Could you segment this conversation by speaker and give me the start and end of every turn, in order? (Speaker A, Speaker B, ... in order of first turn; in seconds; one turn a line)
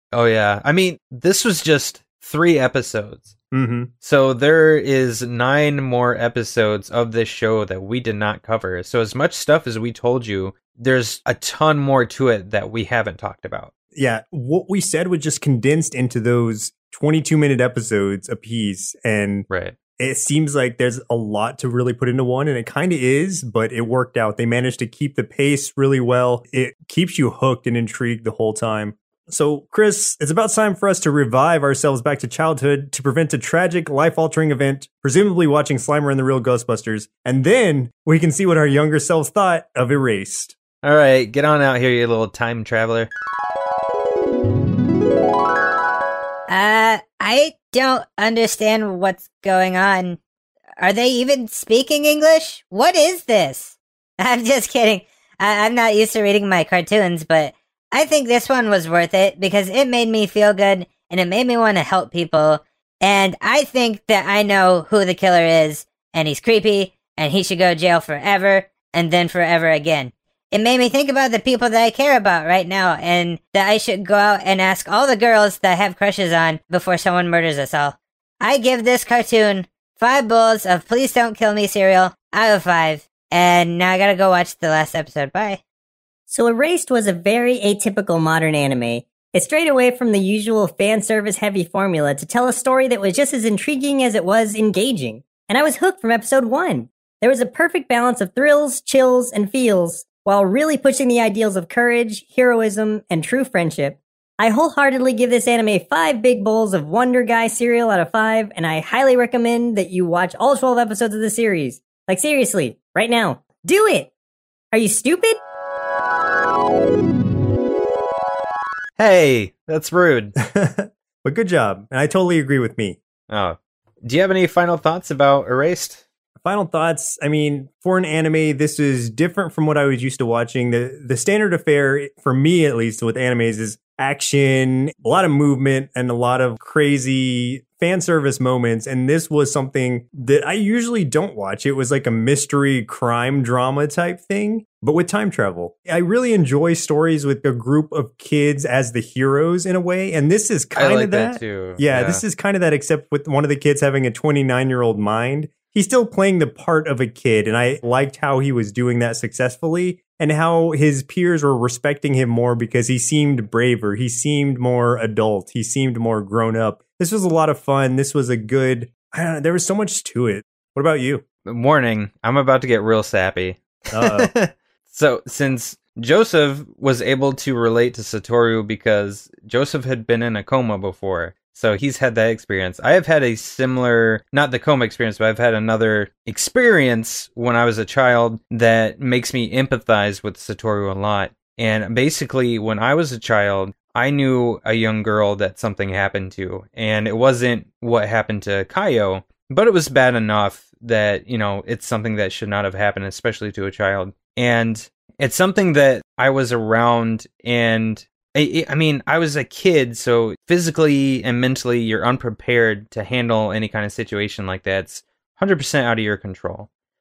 Speaker A: 0.1-3.4
Speaker B: 3.5-3.9
Speaker A: 4.0-13.7
Speaker B: 13.9-19.5
Speaker A: 19.5-19.8
Speaker B: 20.0-40.5
Speaker A: 40.8-43.1
Speaker C: 46.5-50.2
Speaker C: 50.8-85.6
Speaker D: 86.3-114.1
Speaker D: 114.7-115.4
Speaker A: 119.0-120.3
Speaker B: 120.4-123.0
Speaker A: 123.3-126.0
Speaker B: 126.4-171.2
Speaker A: 150.8-152.2
Speaker A: 171.4-216.7
Speaker B: 173.9-174.3